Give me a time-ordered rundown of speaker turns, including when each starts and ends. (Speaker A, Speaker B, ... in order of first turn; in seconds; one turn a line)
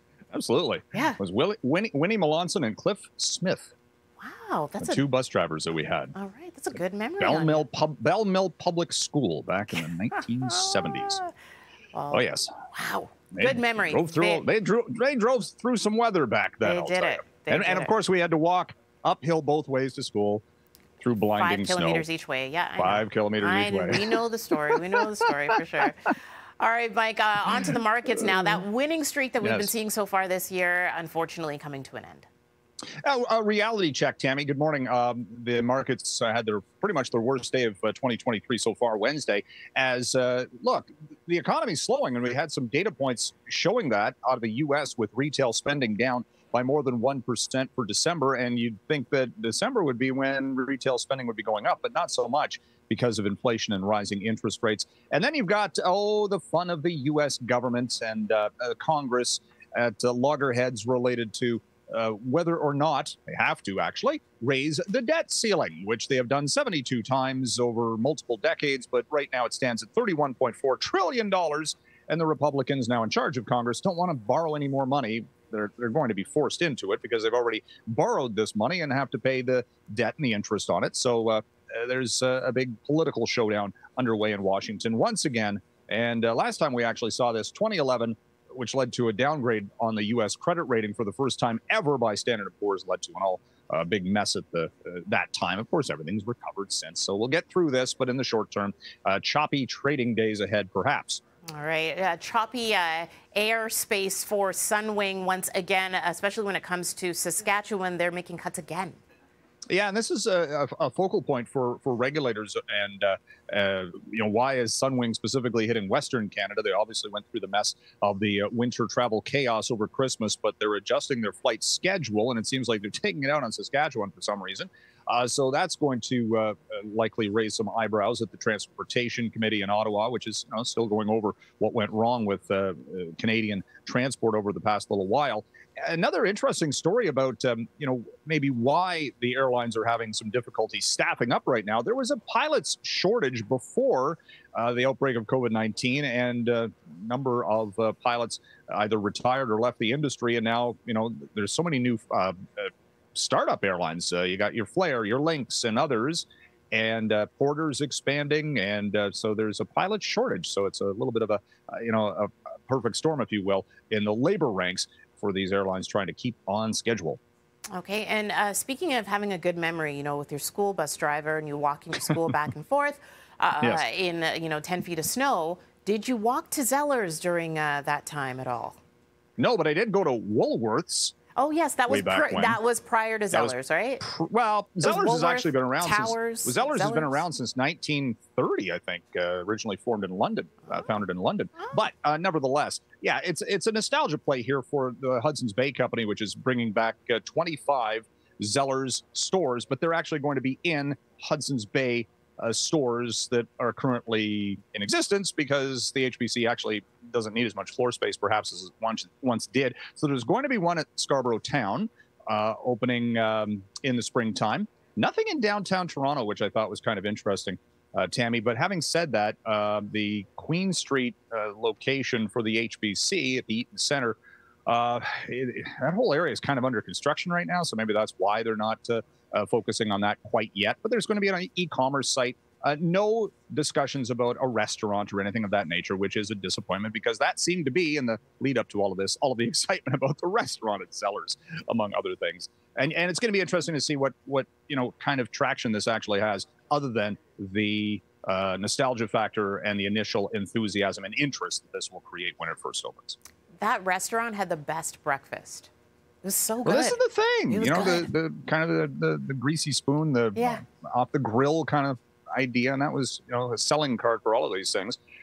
Speaker A: 0.3-3.7
Speaker B: 4.2-5.0
Speaker A: 4.8-6.1
Speaker B: 6.1-7.7
Speaker A: 7.2-11.2
Speaker B: 11.9-14.4
Speaker A: 12.1-12.5
Speaker A: 13.3-20.4
Speaker B: 16.6-17.9
Speaker A: 21.0-22.0
Speaker B: 21.4-32.3
Speaker A: 22.8-25.0
Speaker A: 29.4-29.7
Speaker A: 33.0-101.2
Speaker B: 101.5-109.0
Speaker A: 109.7-167.2
Speaker B: 167.7-178.8
Speaker A: 179.4-181.1
Speaker B: 181.3-184.0
Speaker A: 181.9-182.6
Speaker A: 183.3-253.2
Speaker B: 184.8-187.2
Speaker B: 253.6-255.7
Speaker B: 256.2-257.0
Speaker A: 256.6-265.0
Speaker B: 257.5-258.1
Speaker B: 260.4-260.6